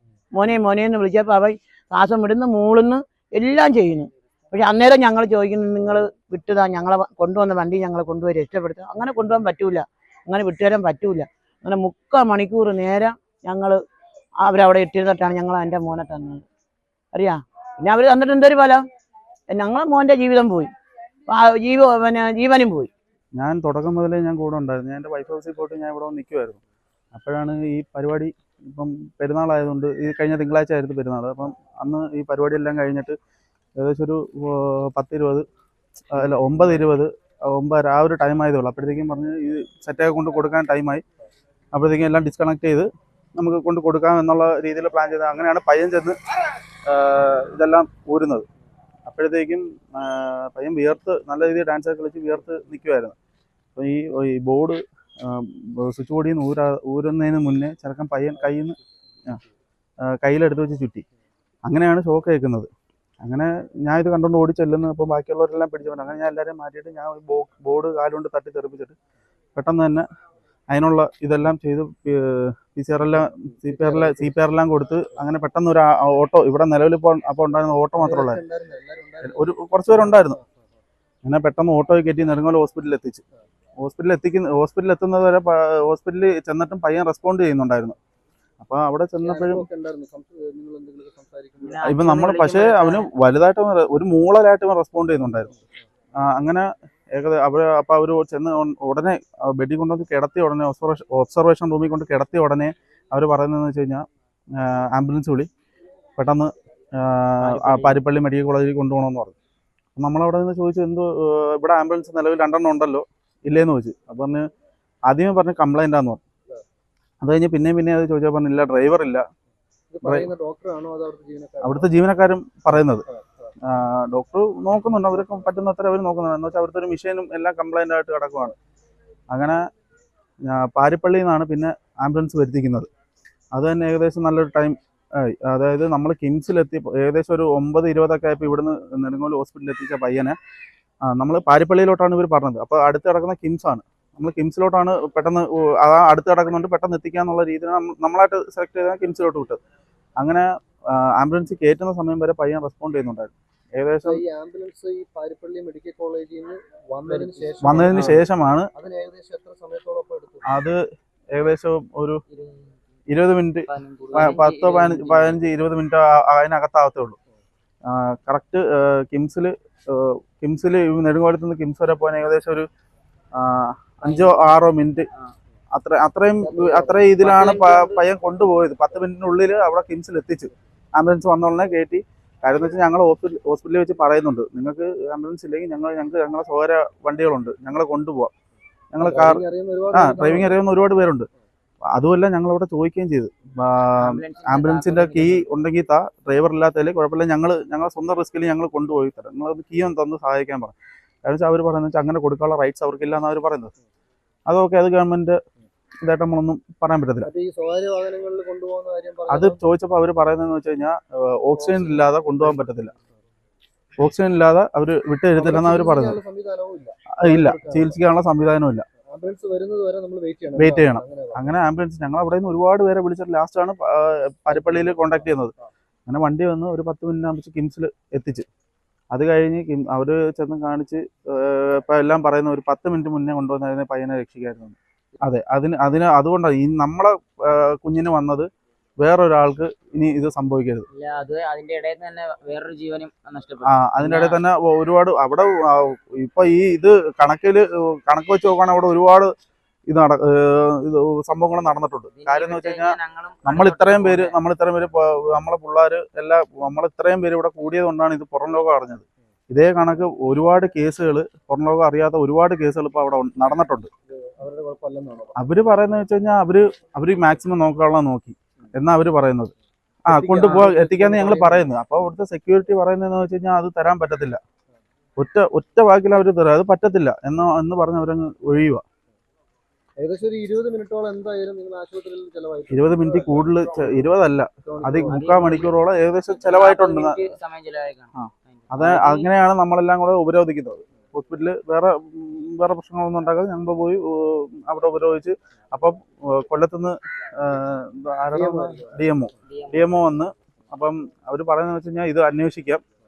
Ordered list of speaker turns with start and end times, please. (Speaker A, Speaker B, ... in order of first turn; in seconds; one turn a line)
Speaker A: 0.3-13.8
Speaker A: 14.4-16.4
Speaker A: 17.1-18.8
Speaker A: 19.5-20.7
Speaker A: 21.3-22.9
Speaker B: 23.4-26.6
Speaker B: 27.1-33.1
Speaker B: 33.8-35.4
Speaker B: 36.1-41.0
Speaker B: 41.7-46.2
Speaker B: 46.9-48.5
Speaker B: 49.0-53.1
Speaker B: 53.8-58.8
Speaker B: 60.1-61.0
Speaker B: 61.6-62.7
Speaker B: 63.2-68.9
Speaker B: 69.5-70.0
Speaker B: 70.7-78.4
Speaker C: 73.7-74.3
Speaker C: 78.0-80.4
Speaker B: 79.2-80.4
Speaker B: 81.2-83.2
Speaker B: 83.8-88.0
Speaker B: 88.6-89.7
Speaker C: 89.2-92.0
Speaker D: 91.6-93.1
Speaker B: 91.8-95.5
Speaker C: 95.2-95.6
Speaker B: 96.2-104.0
Speaker B: 104.6-105.5
Speaker B: 106.2-109.3
Speaker D: 107.4-108.0
Speaker B: 110.0-114.5
Speaker B: 115.1-116.2
Speaker B: 117.2-119.2
Speaker C: 119.9-121.9
Speaker B: 120.0-120.3
Speaker B: 121.6-123.0
Speaker B: 123.7-128.5
Speaker B: 129.3-129.6
Speaker B: 130.4-132.9
Speaker B: 133.5-140.3
Speaker B: 141.1-149.6
Speaker B: 150.2-154.2
Speaker C: 154.0-158.2
Speaker D: 157.1-158.2
Speaker B: 157.6-158.7
Speaker C: 158.7-160.5
Speaker B: 160.5-160.8
Speaker B: 161.3-162.2
Speaker D: 162.3-162.7
Speaker B: 163.1-167.2
Speaker D: 163.7-165.4
Speaker B: 167.9-172.7
Speaker B: 173.4-175.1
Speaker D: 174.1-174.6
Speaker B: 175.7-188.3
Speaker C: 176.4-177.3
Speaker D: 177.2-178.0
Speaker B: 188.9-189.4
Speaker C: 189.0-190.6
Speaker B: 189.9-191.3
Speaker B: 191.9-200.7
Speaker D: 194.0-195.4
Speaker B: 201.2-203.7
Speaker B: 204.5-205.4
Speaker B: 206.0-207.3
Speaker C: 207.2-209.6
Speaker B: 209.3-212.9
Speaker C: 211.6-212.6
Speaker B: 214.0-216.2
Speaker C: 215.3-218.0
Speaker B: 217.2-218.8
Speaker C: 219.1-221.5
Speaker B: 220.6-225.5
Speaker B: 226.1-228.4
Speaker B: 229.1-238.5
Speaker B: 239.0-240.8
Speaker D: 240.9-244.4
Speaker B: 243.7-249.3
Speaker B: 249.9-263.9
Speaker D: 252.1-254.4
Speaker C: 264.3-265.3
Speaker B: 265.4-269.5
Speaker B: 270.1-274.4
Speaker C: 270.1-271.7
Speaker B: 275.2-278.8
Speaker C: 280.0-284.1
Speaker B: 282.7-287.2
Speaker C: 284.6-285.6
Speaker D: 285.1-285.7
Speaker D: 286.3-289.3
Speaker B: 288.1-302.8
Speaker C: 298.3-299.0
Speaker D: 299.4-300.0